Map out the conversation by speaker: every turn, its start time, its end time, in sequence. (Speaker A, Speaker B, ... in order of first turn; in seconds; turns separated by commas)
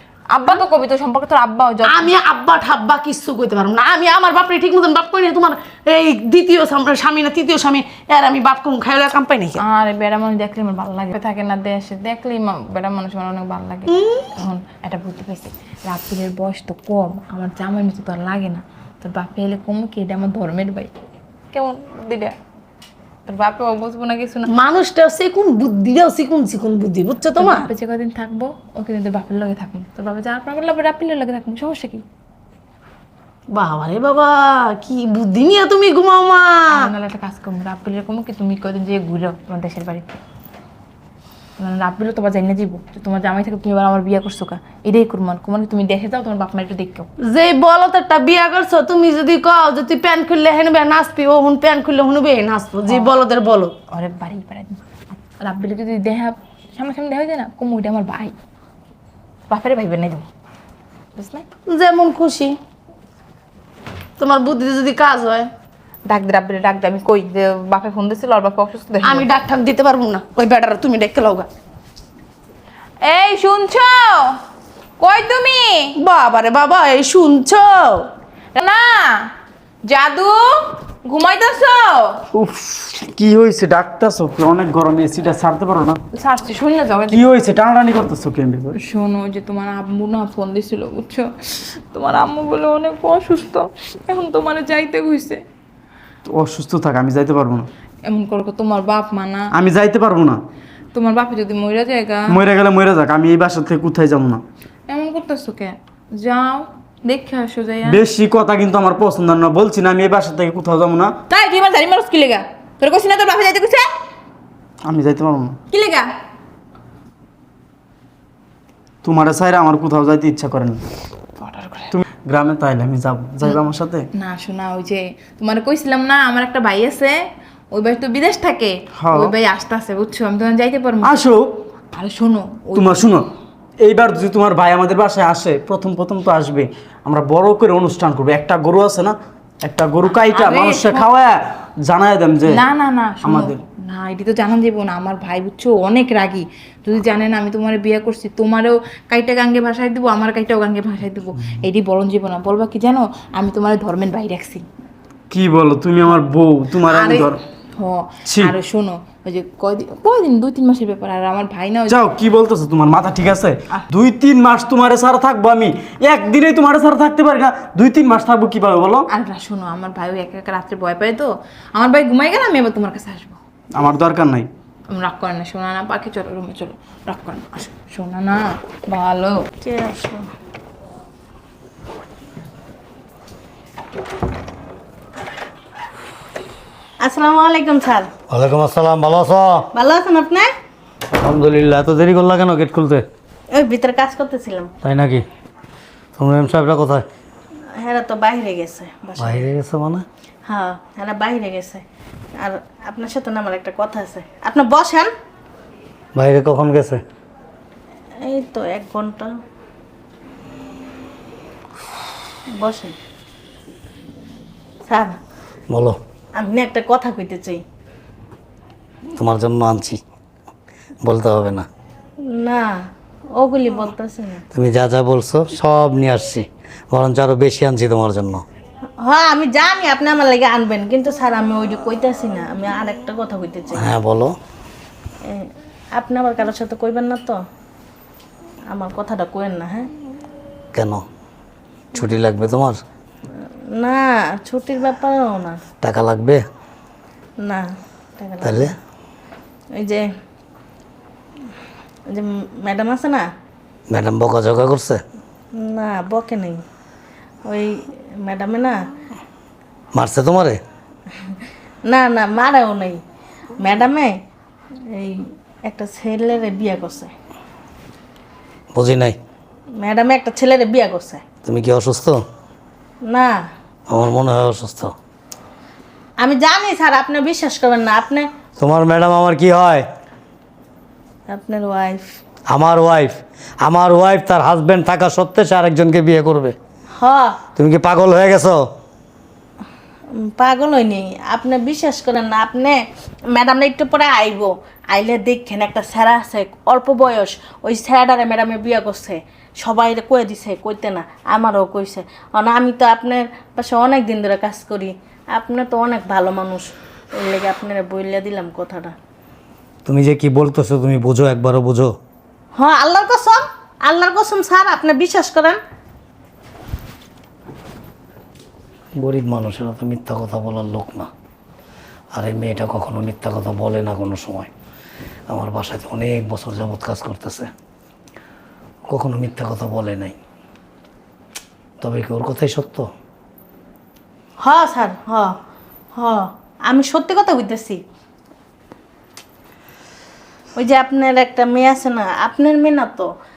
Speaker A: 0.3-2.1, Speaker B: 1.8-9.6, Speaker A: 9.6-20.9, Speaker B: 13.9-14.3, Speaker A: 21.5-22.4, Speaker A: 23.3-24.5, Speaker B: 24.5-27.7, Speaker A: 27.4-32.0, Speaker B: 33.5-36.9, Speaker A: 36.7-40.2, Speaker A: 41.6-47.1, Speaker B: 47.3-53.7, Speaker A: 52.9-53.1, Speaker A: 53.9-54.8, Speaker A: 55.4-58.3, Speaker A: 59.5-60.3, Speaker A: 61.2-61.5, Speaker B: 61.7-62.6, Speaker B: 64.2-65.5, Speaker A: 66.0-69.3, Speaker B: 69.0-71.5, Speaker A: 73.0-74.4, Speaker A: 75.0-76.0, Speaker B: 76.0-78.1, Speaker A: 78.5-79.3, Speaker A: 79.8-82.2, Speaker C: 82.3-86.0, Speaker A: 86.1-87.3, Speaker C: 87.1-88.8, Speaker A: 88.8-95.4, Speaker C: 96.2-97.7, Speaker A: 98.0-99.5, Speaker C: 99.5-100.4, Speaker A: 100.9-102.4, Speaker C: 102.3-104.4, Speaker A: 104.9-108.0, Speaker C: 107.8-111.2, Speaker A: 111.3-113.9, Speaker C: 114.9-115.6, Speaker A: 115.7-116.2, Speaker C: 119.0-120.8, Speaker A: 121.4-121.9, Speaker C: 121.9-124.1, Speaker A: 124.2-127.2, Speaker A: 127.7-131.2, Speaker C: 129.0-129.3, Speaker C: 131.0-131.5, Speaker A: 131.9-133.1, Speaker C: 132.8-133.3, Speaker C: 133.8-142.6, Speaker A: 140.2-141.1, Speaker A: 142.5-154.7, Speaker C: 143.2-143.6, Speaker C: 155.3-157.4, Speaker A: 156.9-162.1, Speaker C: 158.2-158.5, Speaker C: 161.9-169.1, Speaker A: 169.1-173.4, Speaker C: 173.8-174.5, Speaker A: 174.9-179.5, Speaker D: 179.6-180.3, Speaker D: 187.0-188.1, Speaker E: 188.3-189.7, Speaker D: 189.7-190.5, Speaker E: 191.2-193.1, Speaker D: 193.5-194.7, Speaker E: 194.8-195.2, Speaker E: 196.2-197.1, Speaker D: 197.8-199.4, Speaker E: 199.2-200.1, Speaker D: 200.5-201.8, Speaker D: 202.4-205.1, Speaker E: 206.2-207.0, Speaker D: 208.2-209.3, Speaker D: 212.5-213.0, Speaker D: 214.9-215.2, Speaker E: 215.7-216.0, Speaker D: 216.3-217.6, Speaker E: 219.1-220.0, Speaker E: 221.0-221.7, Speaker D: 222.3-222.8, Speaker D: 223.3-224.4, Speaker E: 224.5-228.4, Speaker D: 229.0-233.9, Speaker E: 233.8-234.3, Speaker D: 235.2-237.4, Speaker D: 238.7-239.9, Speaker E: 240.7-241.0, Speaker E: 241.9-242.8, Speaker D: 243.7-245.6, Speaker E: 245.8-246.4, Speaker D: 247.4-247.7, Speaker D: 248.2-248.7, Speaker E: 248.4-248.7, Speaker D: 249.8-250.1, Speaker D: 252.1-253.3, Speaker E: 253.9-255.0, Speaker D: 255.5-256.6, Speaker D: 257.5-258.8, Speaker E: 259.9-260.6, Speaker D: 261.9-263.0, Speaker D: 263.6-264.1, Speaker D: 264.9-267.1, Speaker E: 268.7-269.2, Speaker D: 269.8-271.2, Speaker E: 271.4-272.2, Speaker D: 273.0-273.4, Speaker E: 273.9-274.9, Speaker D: 276.2-278.3, Speaker E: 278.6-279.8, Speaker D: 281.3-282.1, Speaker E: 282.5-286.6, Speaker D: 287.0-287.4, Speaker E: 287.6-288.6, Speaker D: 290.2-308.9, Speaker E: 309.9-311.9, Speaker D: 312.6-315.6, Speaker E: 319.0-321.1, Speaker E: 322.1-324.5, Speaker E: 325.3-327.5, Speaker E: 328.9-330.1, Speaker E: 331.8-332.9, Speaker D: 334.4-335.3, Speaker D: 335.9-337.8, Speaker D: 340.6-343.1